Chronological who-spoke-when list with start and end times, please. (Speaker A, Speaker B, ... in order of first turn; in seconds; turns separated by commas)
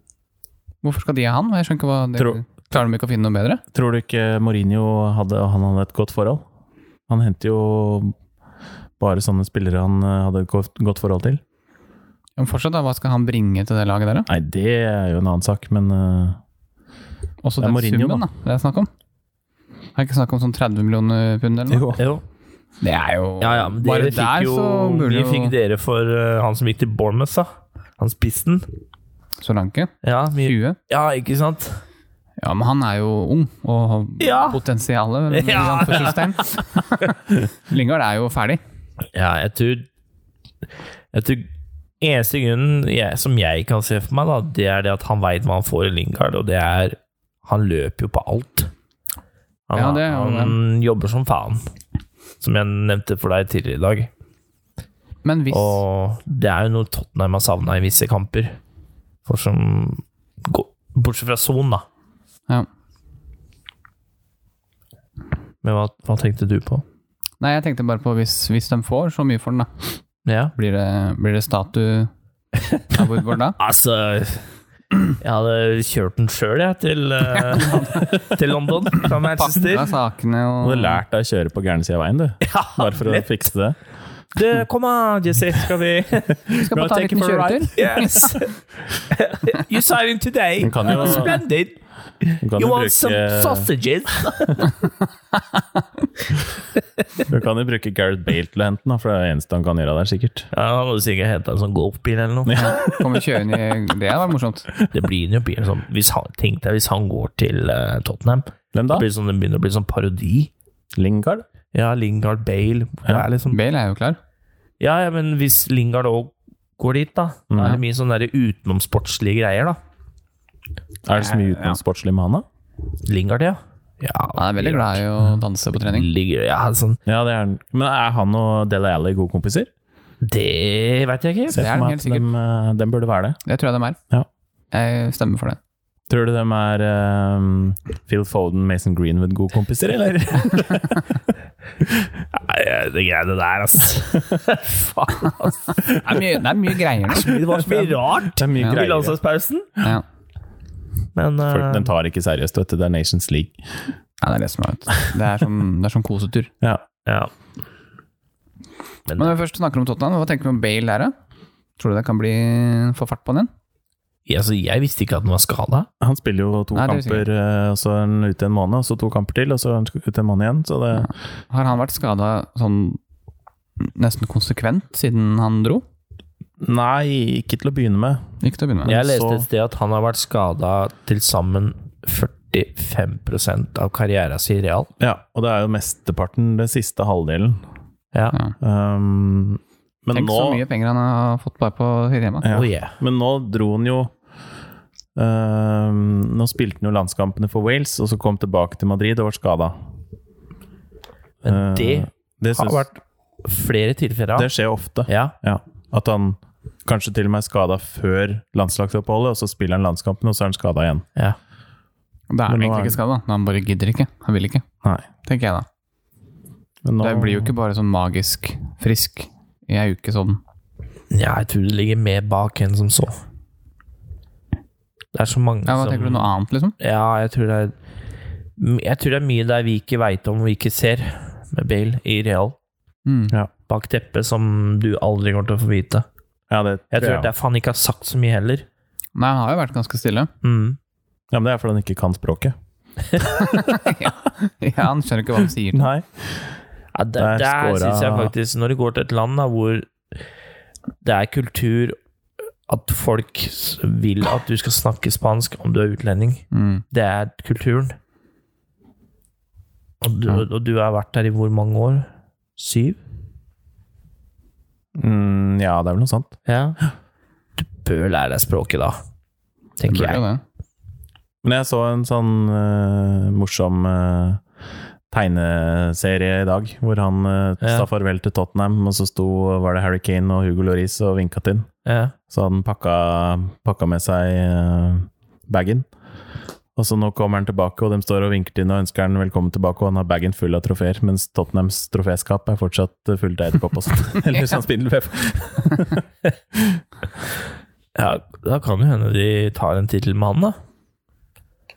Speaker A: 0.8-3.6, Speaker B: 3.7-6.4, Speaker B: 7.1-8.2, Speaker B: 9.0-11.4, Speaker A: 12.4-14.3, Speaker B: 14.3-16.4, Speaker A: 17.4-18.9, Speaker B: 17.6-18.2, Speaker A: 20.0-21.9, Speaker B: 21.7-22.1, Speaker C: 22.0-22.2, Speaker A: 22.8-25.5, Speaker C: 23.4-28.7, Speaker A: 29.4-30.8, Speaker C: 30.0-31.8, Speaker A: 32.4-38.6, Speaker C: 34.2-34.6, Speaker C: 35.3-36.5, Speaker C: 39.1-39.9, Speaker C: 41.1-41.5, Speaker C: 42.0-48.7, Speaker C: 49.7-51.6, Speaker A: 49.7-50.6, Speaker C: 52.4-54.1, Speaker A: 55.2-55.8, Speaker C: 55.5-58.6, Speaker C: 59.3-61.9, Speaker C: 65.6-66.8, Speaker A: 67.4-69.7, Speaker C: 70.3-70.5, Speaker A: 70.5-72.1, Speaker A: 72.9-73.6, Speaker C: 73.6-74.5, Speaker C: 75.2-79.9, Speaker A: 77.3-78.3, Speaker A: 79.0-81.0, Speaker B: 80.6-83.8, Speaker C: 82.4-83.3, Speaker C: 84.3-86.3, Speaker B: 86.3-88.0, Speaker A: 86.5-88.3, Speaker C: 87.8-94.7, Speaker B: 90.6-91.4, Speaker B: 92.4-93.7, Speaker A: 95.5-95.8, Speaker B: 97.3-100.5, Speaker C: 100.5-102.6, Speaker B: 102.5-103.2, Speaker A: 102.5-104.7, Speaker C: 104.9-110.5, Speaker B: 108.7-109.1, Speaker B: 111.0-111.5, Speaker C: 111.7-113.6, Speaker A: 113.5-114.2, Speaker C: 114.8-119.8, Speaker B: 117.5-117.8, Speaker B: 121.1-122.5, Speaker A: 121.2-121.8, Speaker C: 123.1-125.0, Speaker A: 124.4-126.1, Speaker C: 125.8-127.0, Speaker B: 127.1-129.7, Speaker C: 130.2-131.6, Speaker B: 131.5-133.4, Speaker A: 131.5-132.3, Speaker A: 133.4-134.0, Speaker A: 134.7-135.6, Speaker B: 136.1-141.2, Speaker B: 141.8-142.1, Speaker C: 142.3-145.9, Speaker A: 145.9-147.3, Speaker C: 147.1-149.7, Speaker B: 147.3-149.2, Speaker C: 151.2-151.9, Speaker B: 151.5-153.6, Speaker A: 154.2-156.5, Speaker C: 157.1-157.3, Speaker C: 159.1-159.3, Speaker A: 159.2-161.1, Speaker A: 161.8-163.5, Speaker C: 164.3-165.9, Speaker B: 166.0-171.1, Speaker A: 166.7-167.3, Speaker A: 171.0-173.0, Speaker A: 173.8-175.8, Speaker B: 176.6-178.2, Speaker A: 178.4-178.9, Speaker B: 178.8-179.5, Speaker C: 178.8-184.9, Speaker B: 185.0-187.6, Speaker B: 188.6-190.6, Speaker A: 190.1-192.5, Speaker B: 192.4-194.1, Speaker C: 192.5-192.9, Speaker B: 195.2-199.8, Speaker C: 201.4-204.5, Speaker B: 201.5-202.9, Speaker B: 204.4-211.1, Speaker C: 205.1-205.3, Speaker A: 212.3-214.6, Speaker B: 212.5-213.0, Speaker A: 215.2-215.7, Speaker B: 216.8-217.5, Speaker A: 217.0-220.4, Speaker C: 221.1-223.2, Speaker C: 225.1-227.8, Speaker A: 225.7-226.8, Speaker C: 228.6-232.6, Speaker A: 233.1-233.3, Speaker C: 233.7-236.1, Speaker B: 236.5-237.3, Speaker C: 236.9-238.7, Speaker A: 239.2-240.3, Speaker C: 240.4-240.8, Speaker B: 241.3-242.5, Speaker A: 243.3-245.9, Speaker B: 243.6-243.9, Speaker B: 245.7-246.5, Speaker C: 246.9-249.9, Speaker B: 247.2-248.3, Speaker C: 251.0-252.0, Speaker C: 252.7-258.0, Speaker A: 256.5-256.8, Speaker C: 260.0-263.0, Speaker B: 265.0-266.4, Speaker C: 266.5-266.8, Speaker C: 267.6-269.0, Speaker C: 269.8-270.2, Speaker A: 269.9-270.4, Speaker B: 271.4-274.4, Speaker B: 275.1-281.7, Speaker C: 277.6-277.9, Speaker C: 281.9-282.1, Speaker B: 282.3-285.9, Speaker B: 286.8-296.8, Speaker C: 297.9-300.6